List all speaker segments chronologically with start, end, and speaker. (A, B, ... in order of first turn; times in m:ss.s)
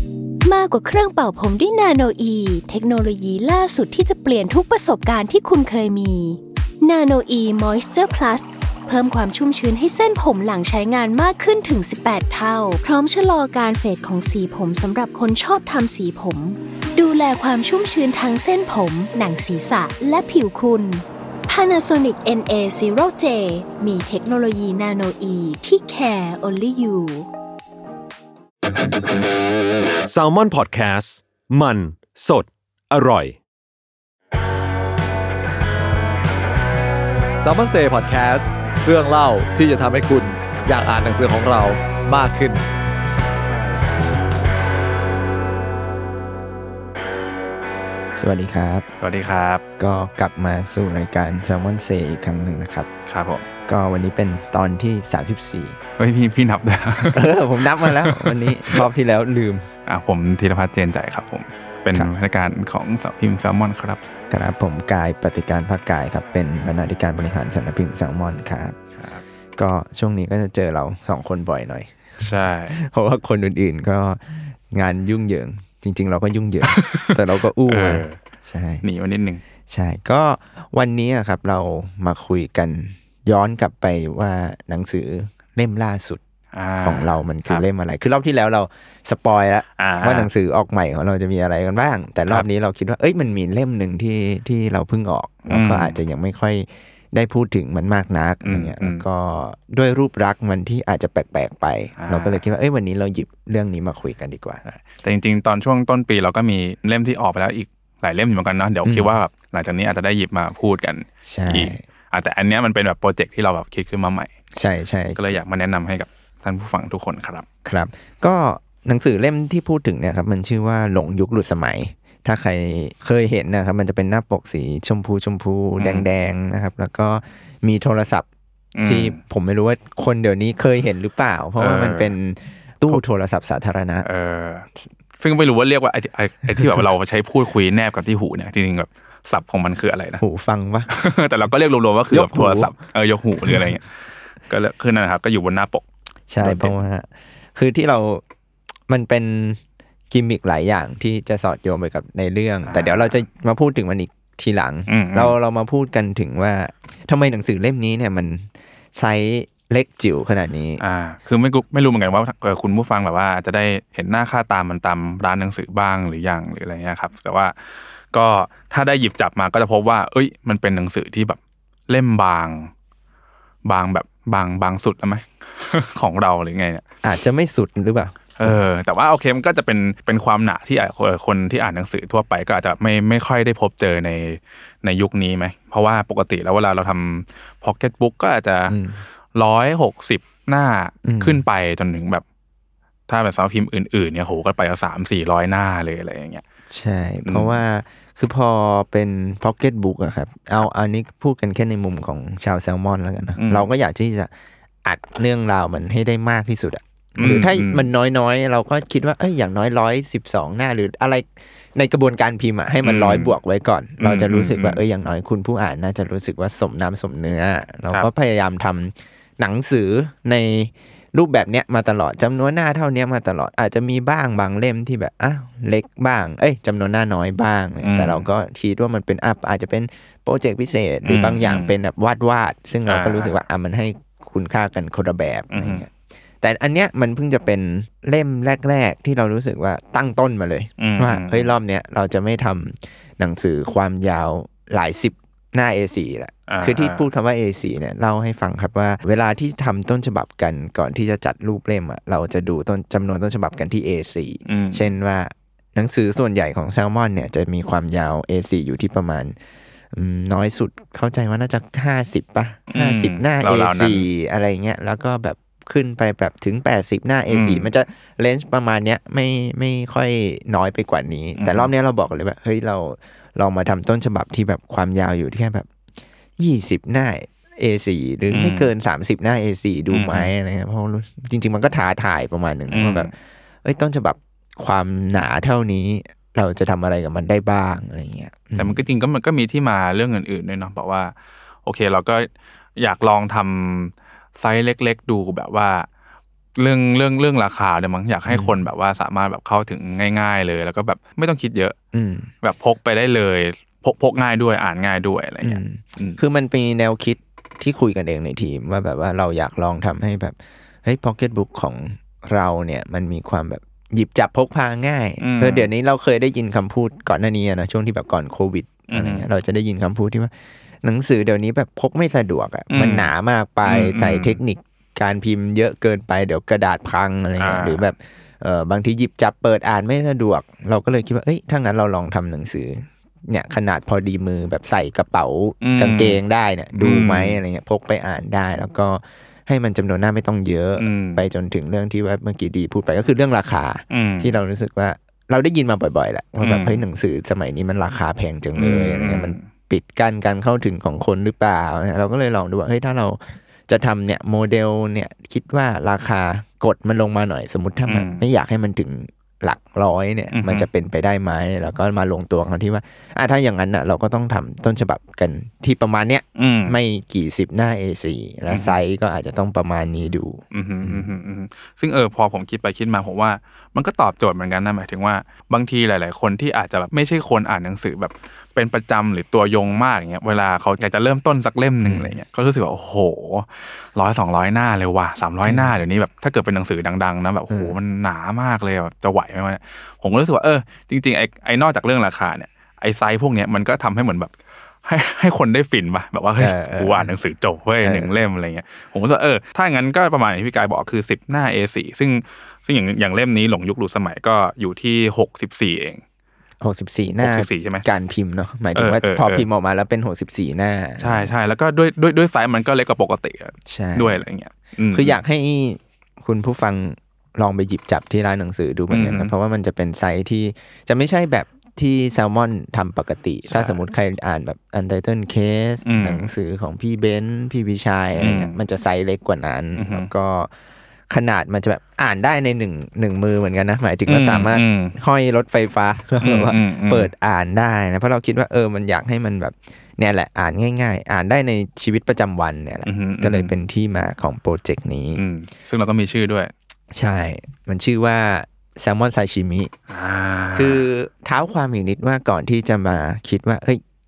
0:00.4-0:27.3 A
0:30.0-0:33.4 B
0:37.4-0:42.6 C
0:48.2-0:48.9 D
0:49.0-0:49.6 E
0:49.8-0:52.9 D
0:53.0-0:53.4 E
0:53.6-0:55.8 D
0:56.0-0:58.8 E
0:57.0-0:59.7 D
0:59.8-1:04.0 E
1:04.3-1:08.8 D
1:09.0-1:09.2 E
1:09.6-1:18.8 D
1:12.2-1:12.8 E
1:16.7-1:17.1 E
1:17.7-1:18.2 E
1:18.8-1:19.4 E
1:19.7-1:26.2 D
1:26.5-1:27.6 E
1:26.8-1:44.6 D
1:29.8-1:30.3 E
1:35.5-1:36.0 E
1:38.4-1:39.0 E
1:42.0-1:42.4 E
1:44.6-1:54.3 E
1:48.8-1:49.1 D
1:51.2-1:51.8 D
1:54.6-1:55.2 D
1:55.2-1:57.4 E
1:57.6-2:08.3 D
2:05.8-2:06.0 E
2:08.7-2:09.2 E
2:08.8-2:14.0 D
2:11.6-2:12.1 E
2:14.0-2:20.2 E
2:20.2-2:20.9 D
2:20.9-2:23.9 E
2:22.1-2:22.7 D
2:24.5-2:25.8 E
2:26.3-2:28.2 D
2:26.4-2:26.7 E
2:28.9-2:29.6 D
2:30.1-2:40.8 D
2:32.7-2:33.1 E
2:34.9-2:35.3 E
2:40.8-2:52.7 E
2:53.6-2:56.8 E
2:57.0-2:58.6 D
2:58.4-3:08.8 E
3:08.7-3:09.0 D
3:09.3-3:12.2 E
3:11.0-3:11.4 D
3:13.1-3:16.4 E
3:16.7-3:24.3 D
3:17.2-3:17.6 E
3:23.4-3:23.6 E
3:24.8-3:55.9 D
3:27.2-3:27.9 E
3:32.8-3:33.3 E
3:34.0-3:34.8 E
3:47.8-3:48.2 E
3:51.0-3:51.7 E
3:52.9-3:53.3 E
3:55.5-3:55.8 E
3:56.4-4:19.3 D
4:00.8-4:01.5 E
4:06.5-4:07.0 E
4:14.4-4:14.9 E
4:19.9-4:35.6 D
4:22.7-4:24.0 E
4:27.3-4:27.7 E
4:31.4-4:31.7 E
4:36.4-4:43.1 D
4:38.3-4:38.7 E
4:39.9-4:40.3 E
4:42.7-4:43.1 E
4:43.6-4:48.8 D
4:48.6-4:51.1 E
4:51.6-4:55.9 E
4:56.6-5:01.8 E
4:58.3-4:58.6 D
5:01.9-5:02.3 D
5:02.4-5:06.2 E
5:05.4-5:20.3 D
5:15.2-5:15.7 E
5:18.9-5:19.2 E
5:20.8-6:11.1 D
5:22.7-5:23.1 E
5:23.6-5:24.4 E
5:27.4-5:27.9 E
5:35.6-5:36.2 E
5:36.7-5:37.4 E
5:40.8-5:41.2 E
5:43.9-5:44.3 E
5:46.4-5:46.8 E
5:48.6-5:49.4 E
5:57.9-5:58.2 E
6:00.3-6:00.7 E
6:06.4-6:06.8 E
6:08.5-6:08.8 E
6:10.5-6:34.3 E
6:21.8-6:22.1 D
6:25.4-6:25.7 D
6:34.8-6:46.0 E
6:36.4-6:37.1 D
6:37.8-6:38.1 D
6:46.6-6:51.3 D
6:47.2-6:47.8 E
6:48.7-6:49.5 E
6:51.0-6:55.2 E
6:53.6-6:54.2 D
6:54.9-7:10.5 D
6:58.9-6:59.3 E
7:03.5-7:03.8 E
7:05.8-7:06.3 E
7:08.2-7:08.5 E
7:09.8-7:10.1 E
7:11.1-7:25.2 D
7:14.1-7:14.9 E
7:16.2-7:17.1 E
7:22.8-7:23.5 E
7:25.2-7:26.5 E
7:26.9-7:29.7 D
7:29.9-7:30.8 E
7:30.6-7:33.8 D